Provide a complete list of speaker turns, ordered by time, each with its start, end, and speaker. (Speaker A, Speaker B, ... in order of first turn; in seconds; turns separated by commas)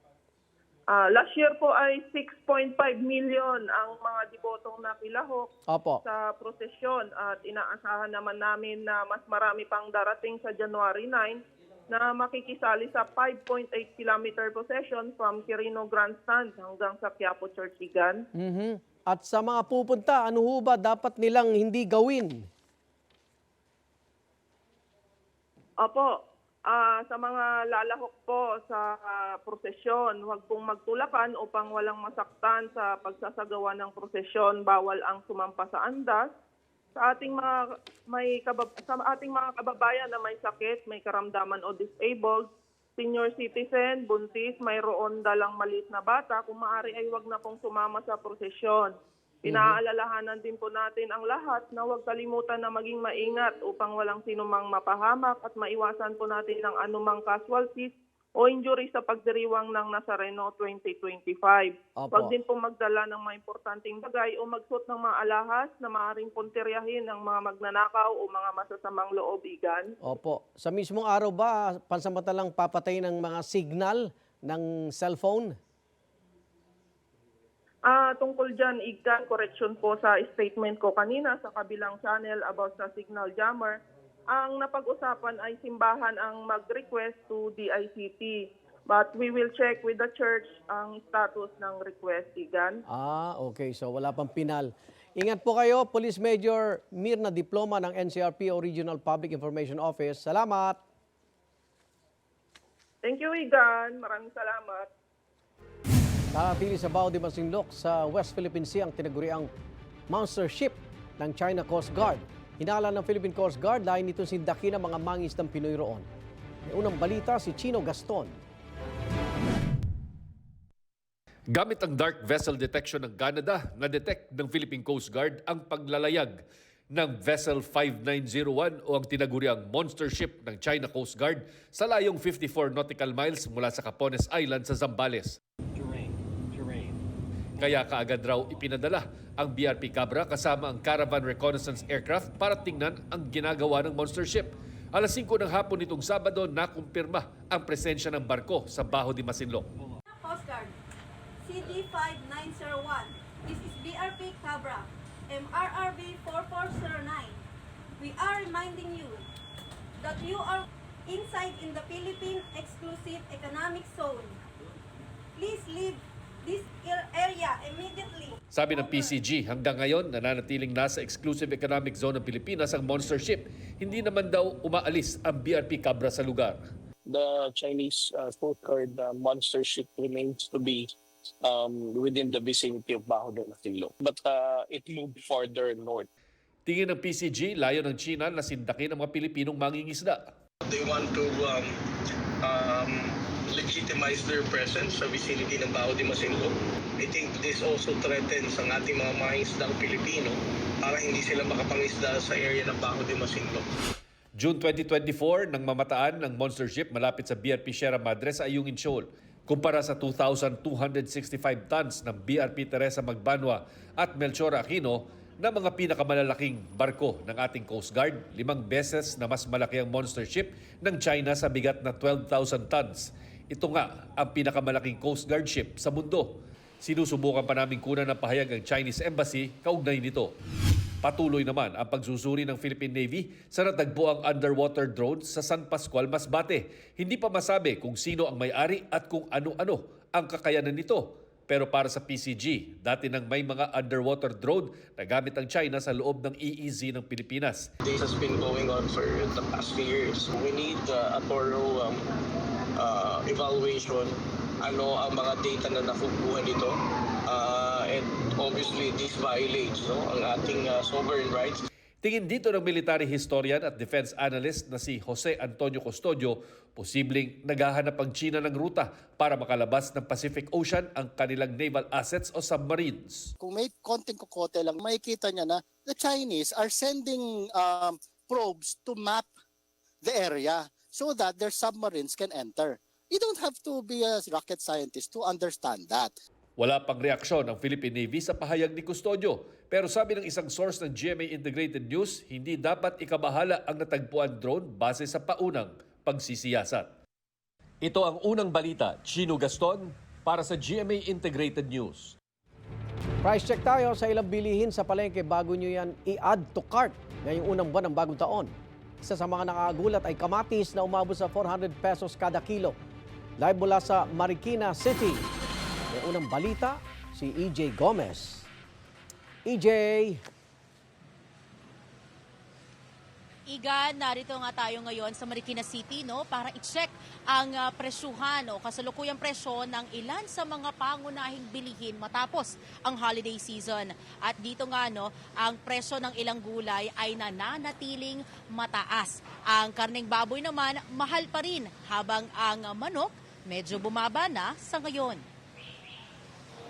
Speaker A: 0.9-5.5, Speaker B: 5.7-6.0, Speaker A: 6.0-18.2, Speaker B: 18.3-22.5, Speaker A: 25.8-26.1, Speaker A: 26.7-36.3, Speaker A: 37.0-48.9, Speaker A: 49.5-69.9, Speaker B: 49.5-49.8, Speaker B: 62.0-62.3, Speaker B: 70.0-75.6, Speaker A: 77.9-83.8, Speaker A: 84.3-88.4, Speaker A: 88.9-92.8, Speaker B: 92.9-100.8, Speaker A: 103.0-104.9, Speaker B: 106.3-109.5, Speaker B: 110.1-116.1, Speaker B: 116.7-118.4, Speaker C: 121.5-135.4, Speaker C: 137.6-149.7, Speaker D: 150.1-150.8, Speaker D: 151.4-157.4, Speaker D: 158.0-159.3, Speaker D: 160.0-164.4, Speaker D: 165.4-169.1, Speaker C: 168.5-176.7, Speaker E: 177.1-180.9, Speaker E: 181.4-186.1, Speaker C: 186.7-190.3, Speaker E: 190.7-191.7, Speaker E: 192.4-203.7, Speaker C: 204.4-230.3, Speaker C: 231.0-247.7, Speaker E: 247.8-252.1, Speaker E: 252.8-256.7, Speaker E: 257.3-261.6, Speaker C: 262.0-273.3, Speaker F: 273.4-279.3, Speaker F: 280.0-286.1, Speaker C: 286.6-296.9, Speaker C: 297.8-302.2, Speaker B: 303.2-312.8, Speaker B: 313.4-315.2, Speaker B: 315.9-318.5, Speaker B: 319.5-320.2, Speaker G: 323.5-345.2